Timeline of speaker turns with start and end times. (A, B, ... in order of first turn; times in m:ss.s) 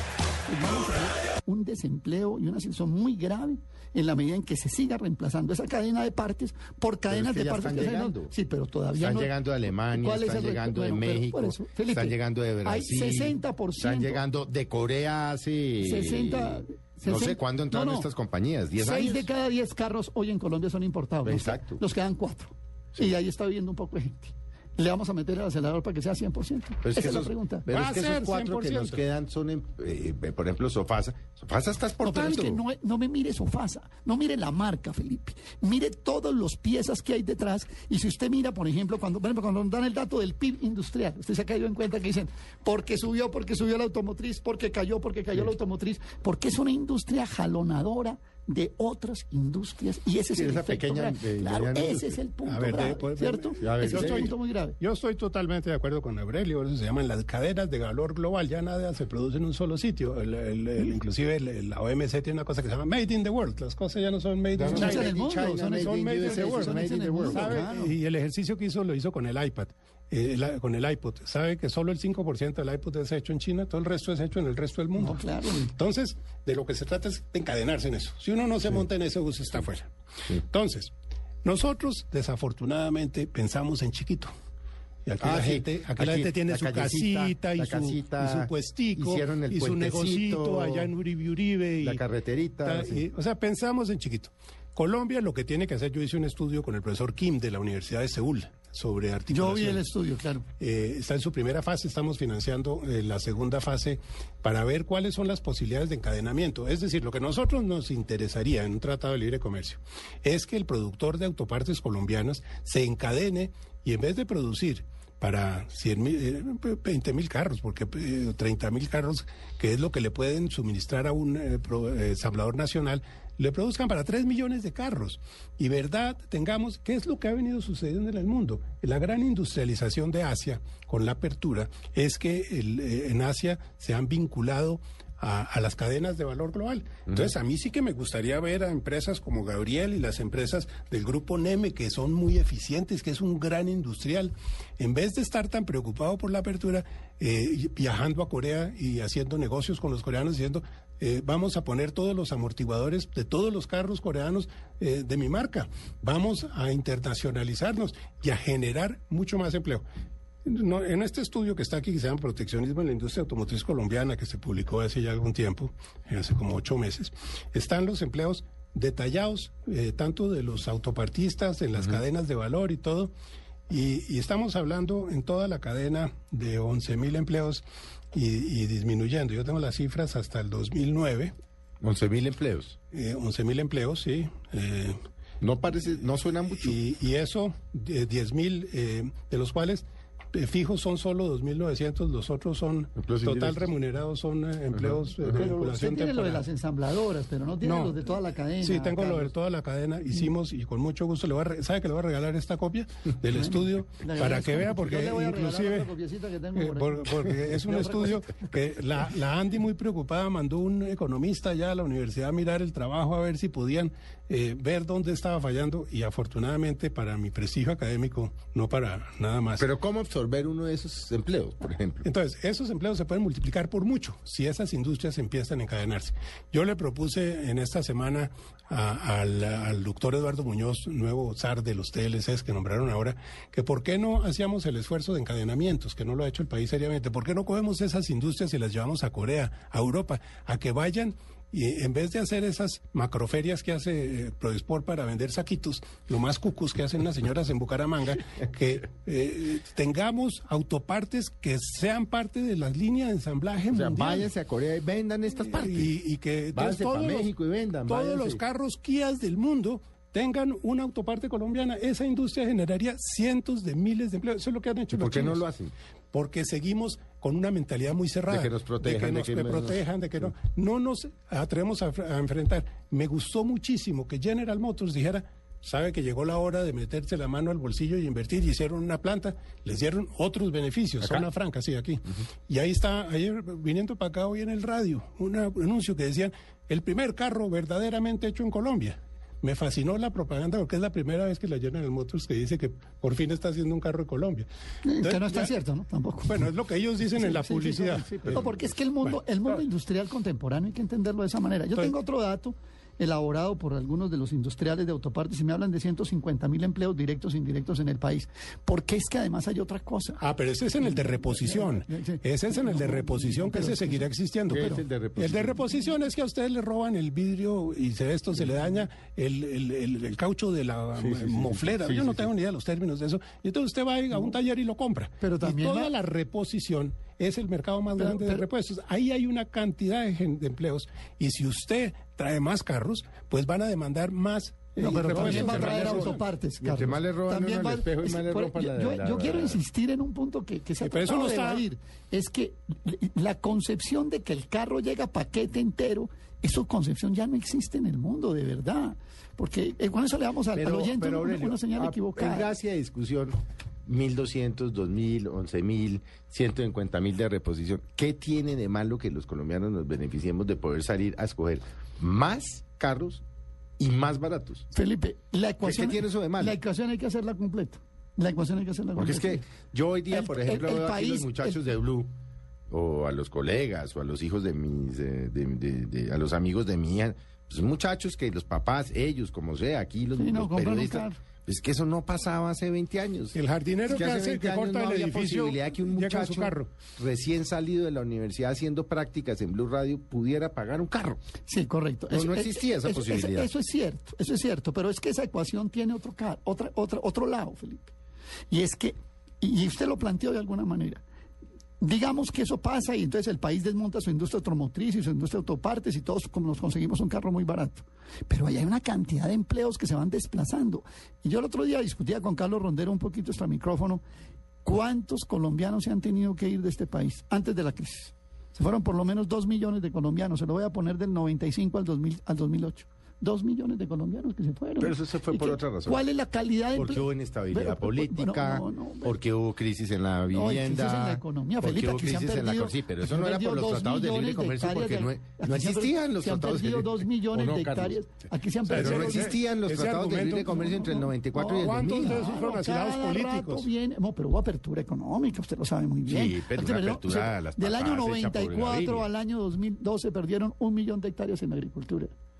0:00.4-0:14.2 A
0:07.1-0:08.3 B
0:09.0-0:19.3 B
0:15.8-0:18.1 A
0:18.8-0:27.7 A
0:21.2-0:21.8 B
0:26.8-0:32.6 B
0:27.7-0:29.0 C
0:32.0-0:54.8 A
0:50.3-0:52.2 B
0:52.4-1:05.2 C
0:53.6-0:54.3 B
1:04.5-1:07.5 B
1:04.7-1:07.9 A
1:05.7-1:20.9 C
1:15.0-1:15.7 A
1:21.4-1:24.3 C
1:25.0-1:32.0 C
1:25.2-1:30.9 B
1:31.8-1:33.0 B
1:32.6-1:39.8 C
1:39.3-1:40.4 A
1:40.6-2:39.8 C
2:17.1-2:17.3 B
2:40.4-2:53.1 C
2:53.7-3:01.3 C
3:01.8-3:02.8 B
3:02.9-3:05.0 C
3:05.4-3:06.8 B
3:06.5-3:16.4 C
3:13.0-3:13.7 B
3:14.7-3:15.5 B
3:15.3-3:19.3 A
3:17.6-3:18.1 C
3:18.6-3:25.9 C
3:23.3-3:28.5 A
3:26.5-3:39.7 C
3:39.6-3:42.1 B
3:42.0-4:14.3 C
4:13.7-4:15.9 B
4:15.4-4:17.3 C
4:16.5-4:18.4 B
4:17.8-4:25.4 C
4:24.9-4:25.7 B
4:26.1-4:54.5 C
4:28.3-4:29.8 B
4:41.0-4:41.3 B
4:54.8-4:56.5 A
4:55.0-4:55.5 C
4:56.2-4:59.6 C
4:57.1-5:10.2 A
5:10.2-5:36.2 C
5:10.8-5:14.8 A
5:14.5-5:15.6 B
5:21.0-5:22.3 B
5:25.2-5:25.9 A
5:28.0-5:28.4 A
5:34.8-5:52.5 A
5:34.9-5:39.6 B
5:40.8-5:41.6 C
5:50.5-6:03.2 B
6:03.8-6:04.7 B
6:04.7-6:09.4 A
6:05.6-6:06.6 B
6:09.0-6:12.1 B
6:10.1-6:11.6 A
6:12.7-6:31.2 B
6:20.1-6:21.2 A
6:23.3-6:26.7 C
6:31.4-6:37.9 A
6:32.1-6:33.5 B
6:38.5-6:41.0 A
6:41.8-6:54.0 A
6:54.6-7:09.2 A
7:04.8-7:06.0 B
7:06.7-7:18.0 B
7:10.3-7:19.4 A
7:18.7-7:20.6 C
7:18.7-7:22.3 B
7:20.4-7:32.1 A
7:21.5-7:23.7 C
7:26.0-7:29.1 B